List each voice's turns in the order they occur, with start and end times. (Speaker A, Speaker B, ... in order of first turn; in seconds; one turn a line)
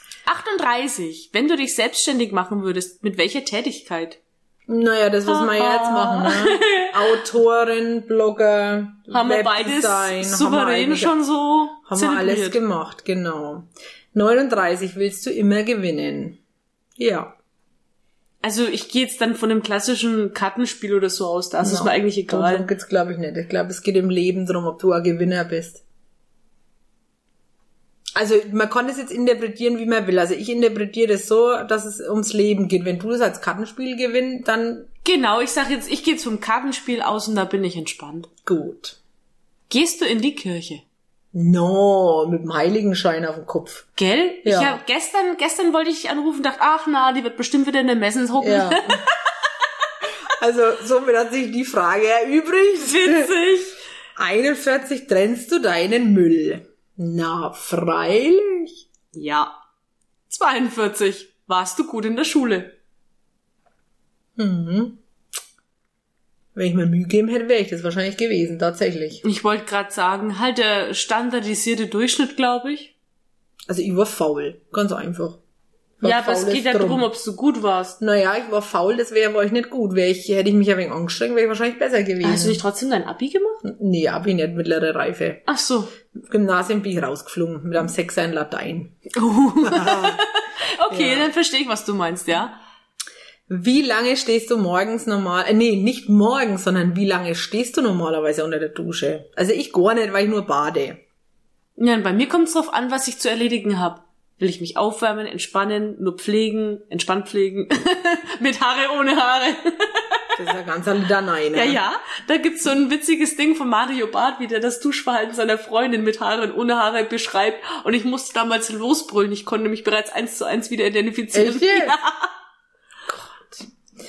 Speaker A: 0.2-4.2
Speaker B: 4.7-11.2
Speaker A: 5.2-7.2
Speaker A: 9.1-12.6
Speaker B: 11.9-16.4
Speaker B: 17.0-17.3
Speaker A: 18.4-22.7
Speaker B: 21.6-25.8
Speaker B: 28.1-34.9
Speaker A: 35.0-38.3
Speaker B: 38.4-39.0
Speaker A: 39.7-40.8
Speaker B: 41.3-43.8
Speaker A: 44.0-49.2
Speaker B: 44.4-44.8
Speaker B: 48.4-49.0
Speaker B: 50.4-53.3
Speaker A: 52.8-53.8
Speaker B: 54.2-58.8
Speaker A: 59.1-59.5
Speaker A: 60.3-62.8
Speaker B: 64.4-65.0
Speaker B: 66.5-69.2
Speaker A: 69.2-72.9
Speaker B: 73.7-75.4
Speaker B: 76.0-77.1
Speaker A: 76.0-78.0
Speaker B: 78.0-82.6
Speaker A: 82.2-83.6
Speaker B: 83.6-85.4
Speaker A: 85.5-85.9
Speaker B: 86.2-89.0
Speaker A: 89.1-92.5
Speaker B: 89.6-90.2
Speaker B: 90.9-91.3
Speaker B: 93.5-101.0
Speaker A: 101.8-110.4
Speaker B: 110.4-111.8
Speaker A: 111.5-122.3
Speaker B: 121.3-122.0
Speaker B: 123.0-123.7